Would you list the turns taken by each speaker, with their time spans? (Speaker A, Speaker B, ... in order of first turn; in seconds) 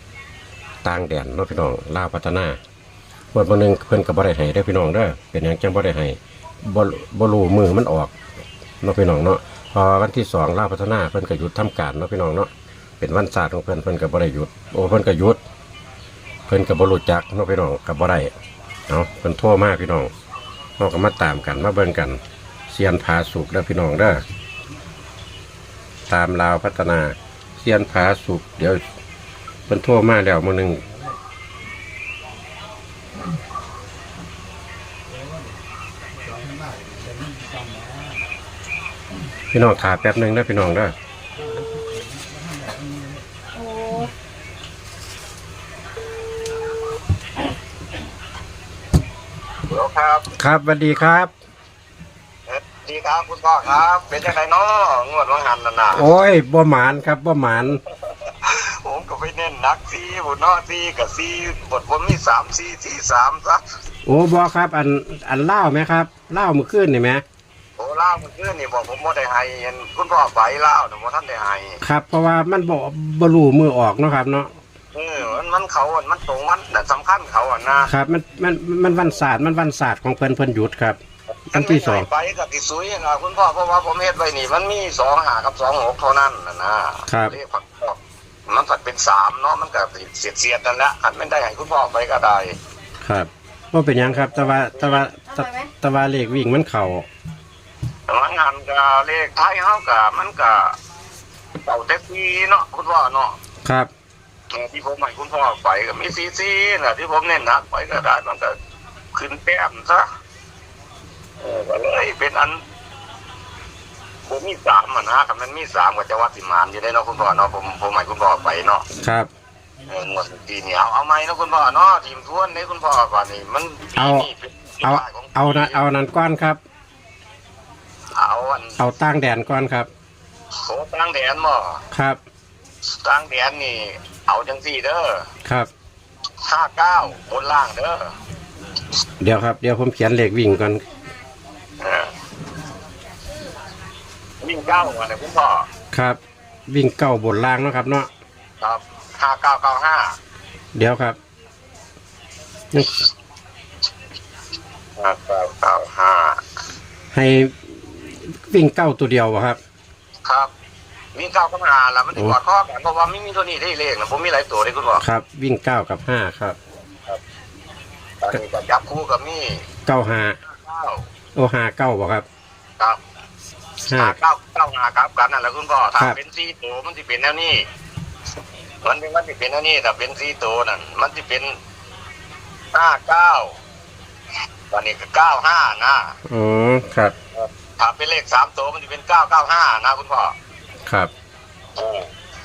Speaker A: 0.8-2.6, 3.3-8.1, 8.8-15.4, 16.5-18.3, 18.9-20.1, 20.8-24.2, 26.1-28.8, 29.7-30.9, 39.5-40.9, 50.4-51.3, 55.9-57.8, 64.1-67.2, 71.8-74.5, 77.9-81.0, 81.5-82.1, 87.1-87.3, 93.0-97.1, 103.7-103.9, 119.0-119.3, 124.0-124.3, 124.8-126.6, 128.8-129.9, 131.9-132.2, 139.2-140.8, 145.9-148.1, 150.8-151.2, 157.1-159.6, 165.0-166.6, 169.9-170.4, 171.3-172.3, 173.9-174.2, 186.3-187.1
Speaker B: 49.7-50.3, 52.5-56.1, 57.7-63.6, 67.8-71.8, 74.9-77.9, 81.5-92.6, 94.0-95.1, 98.1-100.8, 101.6-103.4, 104.5-108.5, 109.1-110.1, 111.4-112.6, 114.3-118.8, 119.9-125.8, 128.2-128.8, 130.6-131.8, 132.9-135.3, 136.5-138.1, 141.8-142.1, 144.4-145.7, 148.6-150.2, 155.0-156.4, 161.2-165.0, 168.2-169.6, 170.4-171.1, 174.0-177.7, 178.8-181.6, 182.7-183.6, 184.7-186.1, 187.3-190.3, 191.8-192.1